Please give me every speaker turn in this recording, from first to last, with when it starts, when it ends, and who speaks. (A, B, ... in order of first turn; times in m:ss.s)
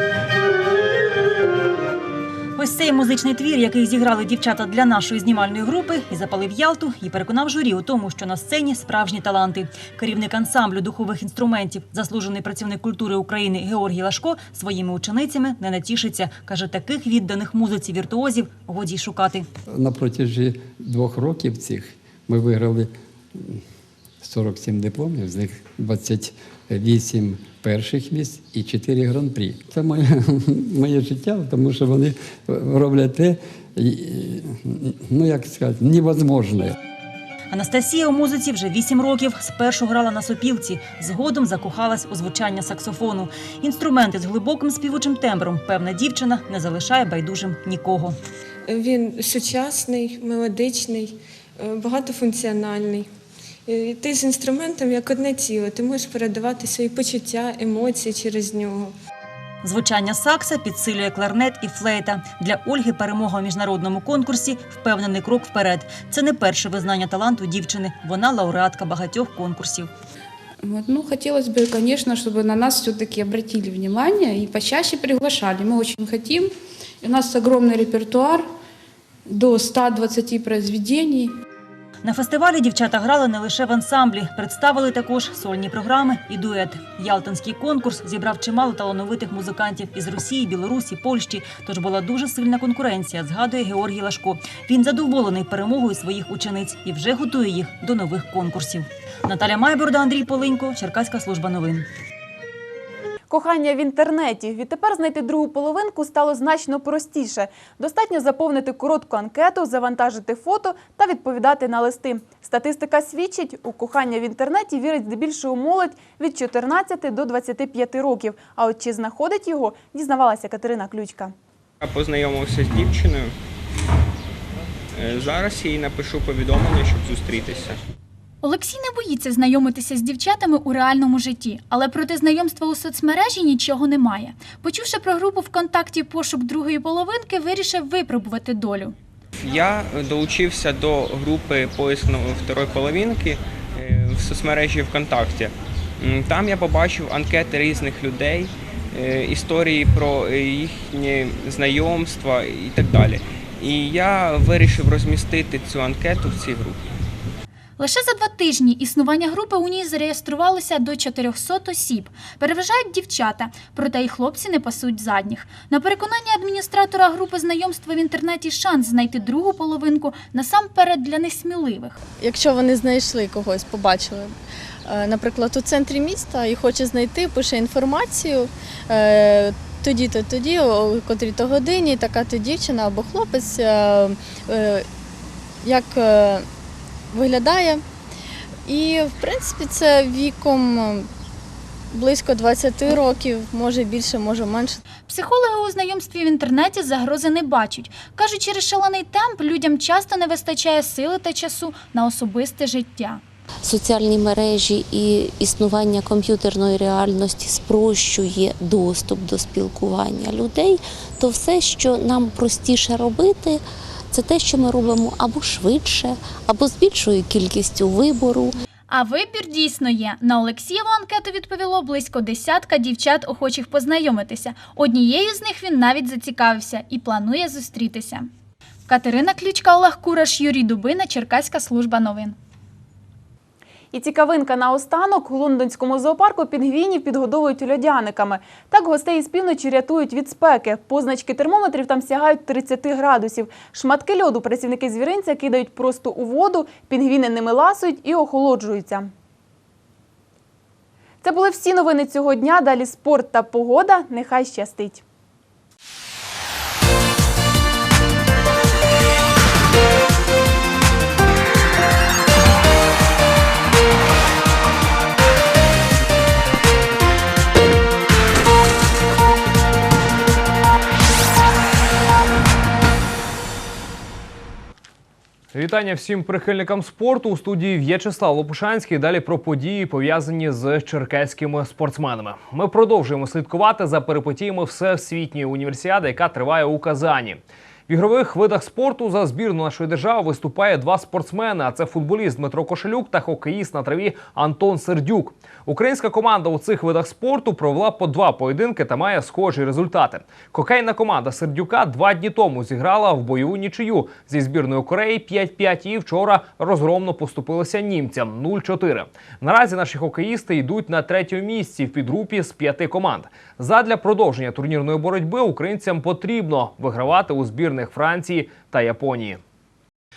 0:02.6-0:19.5 A
0:19.8-0:22.9 B
0:24.2-0:30.1 B
0:30.7-0:32.1 B
0:32.6-0:34.3 B
0:35.1-0:36.7 B
0:37.5-0:48.2 A
0:48.7-0:53.1 C
0:53.7-0:58.9 C
0:59.6-1:09.9 A
1:10.6-1:18.5 D
1:19.3-1:21.4 D
1:22.0-1:41.9 A
1:43.3-2:01.3 E
2:01.8-2:03.3 F
2:04.9-2:07.8 F
2:08.4-2:19.0 G
2:19.4-2:36.9 F
2:37.8-2:52.0 G
2:52.2-3:04.9 H
3:05.6-3:06.5 H
3:07.1-3:07.8 H
3:08.6-3:11.1 H
3:11.9-3:14.8 H
3:15.0-3:23.2 G
3:23.6-3:33.6 I
3:34.1-3:38.5 I
3:38.9-3:48.3 G
3:48.9-3:52.4 G
3:53.9-4:09.1 E
4:11.2-4:15.0 E
4:35.5-5:19.4 J